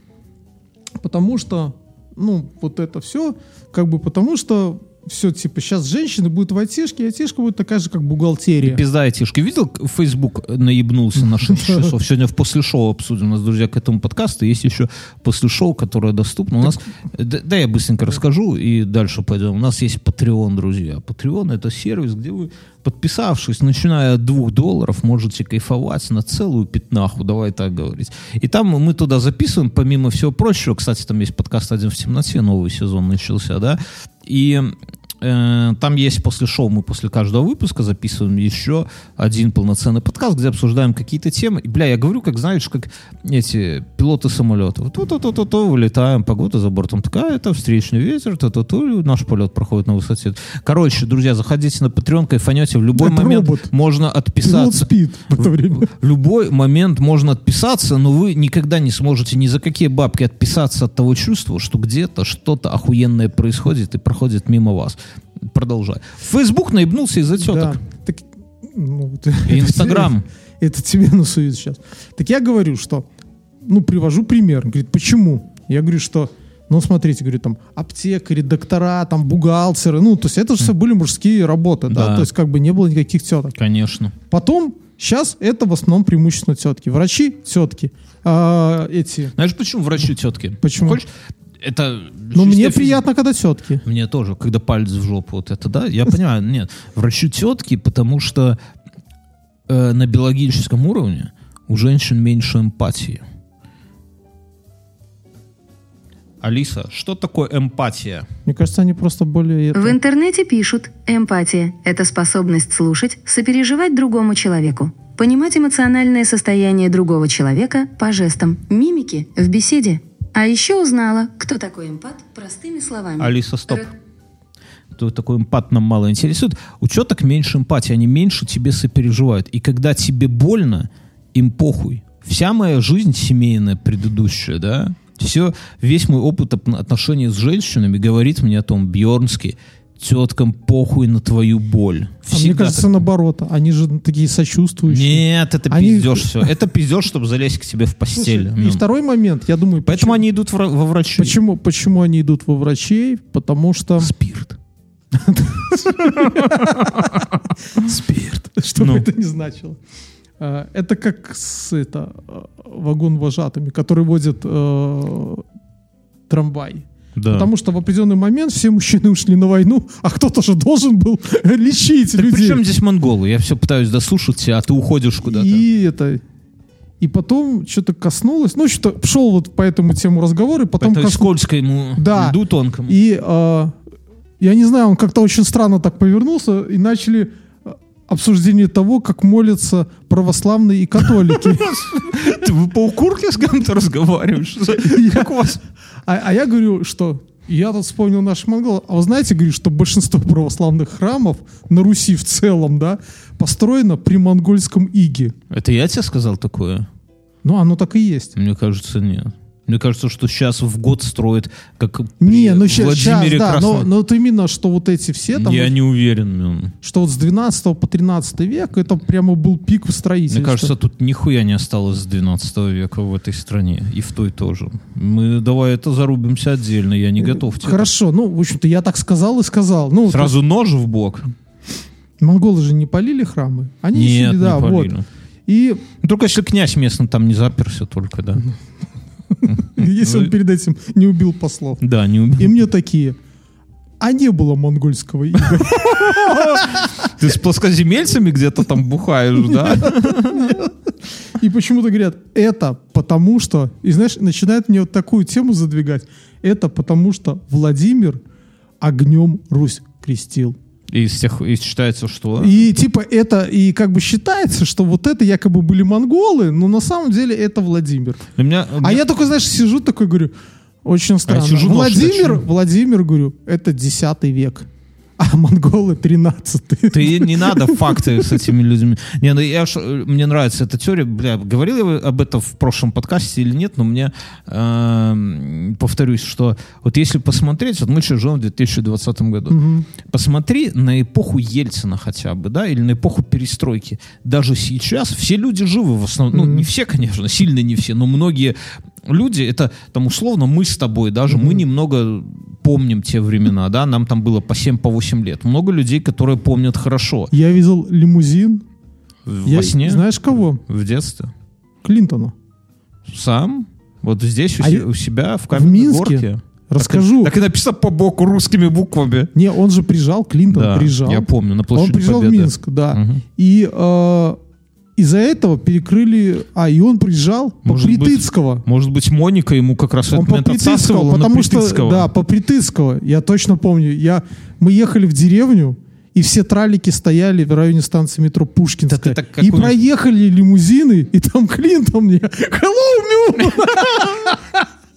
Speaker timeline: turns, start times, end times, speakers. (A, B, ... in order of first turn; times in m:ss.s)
0:01.0-0:08.8 A
0:08.6-1:07.8 B
0:11.5-0:11.9 A
0:53.0-0:53.7 A
0:54.4-0:55.9 A
1:07.4-1:13.1 A
1:09.4-1:10.3 B
1:13.6-1:23.6 A
1:21.9-1:22.3 B
1:23.6-1:24.1 B
1:24.3-1:29.4 A
1:29.4-1:31.1 B
1:30.6-1:31.0 A
1:31.6-1:33.0 B
1:32.3-1:33.8 A
1:33.8-1:38.6 B
1:39.7-1:43.2 B
1:46.4-1:48.3 B
1:48.4-1:50.0 A
1:49.7-2:03.9 C
2:03.2-2:03.9 B
2:05.0-2:23.0 B
2:22.3-2:26.5 A
2:24.9-2:28.8 B
2:28.1-2:30.2 A
2:29.9-2:31.4 B
2:31.2-2:34.1 A
2:34.0-2:34.6 B
2:35.2-2:37.8 A
2:35.7-2:39.1 B
2:38.5-2:39.8 A
2:40.4-2:45.4 A
2:46.3-2:52.6 A
2:47.2-2:47.5 B
2:52.1-2:55.6 B
2:55.3-2:56.2 A
2:57.0-3:01.3 A
3:00.8-3:03.0 B
3:02.0-3:03.7 A
3:04.4-3:12.2 A
3:11.2-3:15.6 B
3:14.8-3:15.3 A
3:16.1-3:25.4 A
3:25.5-3:26.9 B
3:27.4-3:28.3 A
3:28.4-3:33.9 B
3:32.2-3:35.7 A
3:35.3-3:36.7 B
3:36.8-3:40.7 A
3:40.3-3:47.9 B
3:47.2-3:50.4 A
3:50.1-3:51.3 B
3:52.2-3:54.9 A
3:53.9-3:55.1 B
3:55.5-3:55.8 A
3:56.0-3:58.4 B
3:59.3-4:01.8 A
3:59.5-4:00.3 B
4:01.8-4:02.6 B
4:02.4-4:03.2 A
4:04.0-4:07.1 A
4:05.6-4:10.7 B
4:09.6-4:10.7 A
4:11.4-4:18.2 A
4:18.8-4:20.6 A
4:20.9-4:22.6 B
4:22.4-4:30.3 A
4:28.4-4:29.1 B
4:30.8-4:34.7 A
4:31.3-4:32.4 B
4:35.2-4:38.2 A
4:36.9-5:07.3 B
4:49.5-4:49.9 A
4:56.3-4:56.7 A
5:01.3-5:01.6 A
5:07.3-5:08.6 A
5:09.3-5:11.3 B
5:09.4-5:10.6 A
5:11.8-5:12.3 A
5:13.1-5:19.3 B
5:14.6-5:14.9 A
5:15.5-5:17.3 A
5:19.3-5:24.4 A
5:20.5-5:23.2 B
5:25.0-5:28.6 A
5:27.6-5:32.1 B
5:30.1-5:44.4 A
5:38.9-5:39.8 B